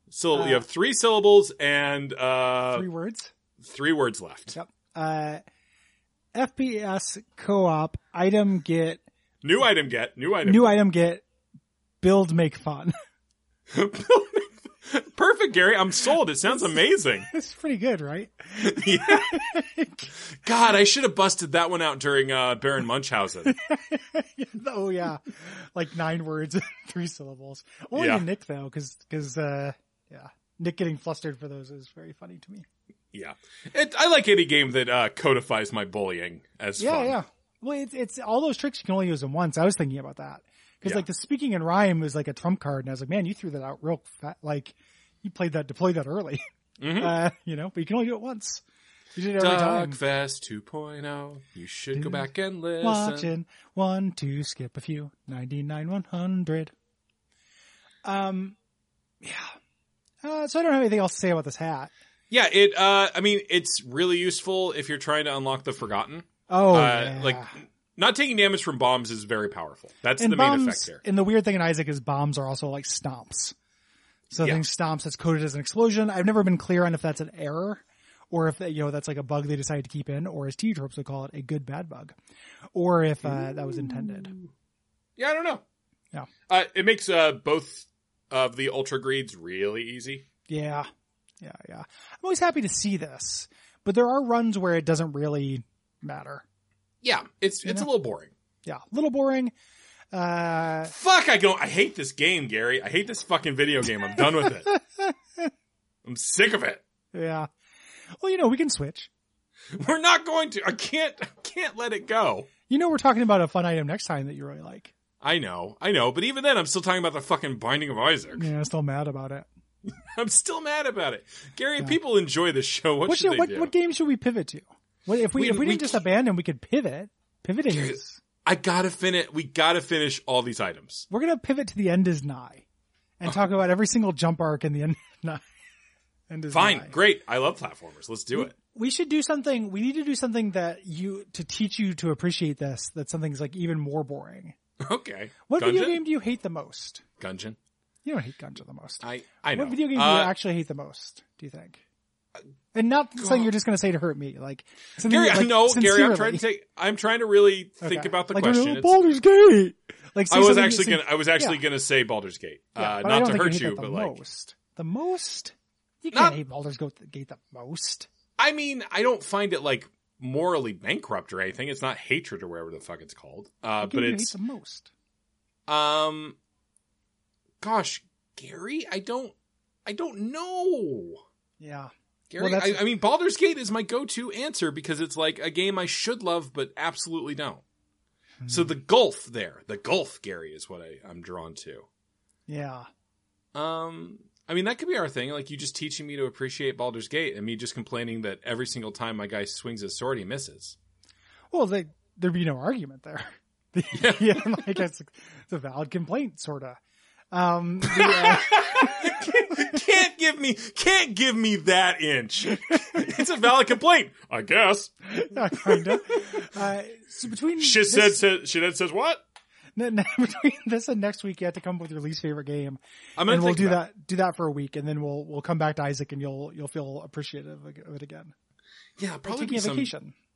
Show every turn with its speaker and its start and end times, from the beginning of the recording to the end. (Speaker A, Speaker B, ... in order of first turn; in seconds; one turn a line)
Speaker A: 0.1-2.9
Speaker B: 0.3-0.6
Speaker B: 2.7-3.3
Speaker A: 3.6-4.5
Speaker B: 4.5-5.4
Speaker B: 6.3-9.0
Speaker A: 9.4-10.8
Speaker B: 10.4-11.2
Speaker B: 12.0-12.9
Speaker A: 13.7-17.3
Speaker B: 17.3-20.1
Speaker A: 18.6-19.4
Speaker A: 20.4-23.5
Speaker B: 23.4-32.6
Speaker A: 27.9-28.2
Speaker A: 33.1-37.2
Speaker B: 36.8-46.4
Speaker A: 46.8-47.2
Speaker B: 47.0-48.6
Speaker B: 49.1-50.0
Speaker A: 49.4-53.3
Speaker B: 52.0-56.7
Speaker B: 58.0-58.5
Speaker B: 59.2-59.5
Speaker B: 60.2-61.9
Speaker A: 62.3-71.0
Speaker B: 66.5-67.5
Speaker B: 70.2-73.5
Speaker B: 74.3-82.1
Speaker B: 82.7-84.3
Speaker A: 83.2-84.5
Speaker A: 85.2-85.6
Speaker A: 86.5-90.2
Speaker B: 90.5-90.9
Speaker B: 91.4-96.4
Speaker A: 97.0-98.3
Speaker B: 98.6-99.5
Speaker B: 100.1-100.9
Speaker A: 100.9-104.7
Speaker B: 104.2-105.5
Speaker A: 106.0-106.8
Speaker B: 107.1-107.5
Speaker B: 108.2-109.1
Speaker A: 109.8-112.5
Speaker B: 112.7-114.9
Speaker A: 115.2-118.5
Speaker B: 118.4-119.5
Speaker A: 119.9-123.7
Speaker B: 123.0-128.2
Speaker A: 125.3-126.0
Speaker A: 127.7-127.9
Speaker A: 128.4-131.1
Speaker B: 131.1-132.6
Speaker B: 133.2-135.4
Speaker B: 136.3-136.9
Speaker A: 136.5-138.5
Speaker B: 138.3-144.5
Speaker A: 144.8-146.0
Speaker B: 145.5-147.0
Speaker A: 147.2-147.6
Speaker B: 148.0-151.8
Speaker A: 149.0-150.3
Speaker B: 152.7-156.4
Speaker A: 153.2-153.5
Speaker A: 155.0-159.0
Speaker B: 157.8-161.6
Speaker A: 160.3-164.2
Speaker B: 162.8-168.1
Speaker A: 166.1-166.4
Speaker A: 168.4-174.3
Speaker B: 173.8-174.9
Speaker A: 175.7-176.4
Speaker A: 177.6-179.3
Speaker A: 179.8-181.2
Speaker B: 181.6-182.8
Speaker A: 182.3-187.6
Speaker B: 188.4-188.7
Speaker A: 188.5-191.8
Speaker B: 192.5-192.9
Speaker A: 193.5-200.8
Speaker B: 201.5-206.8
Speaker A: 203.9-204.8
Speaker B: 207.3-209.5
Speaker A: 207.8-214.9
Speaker B: 215.1-218.2
Speaker A: 215.5-216.3
Speaker A: 217.6-219.2
Speaker B: 219.8-228.3
Speaker A: 223.2-223.8
Speaker A: 229.0-229.9
Speaker B: 229.2-230.1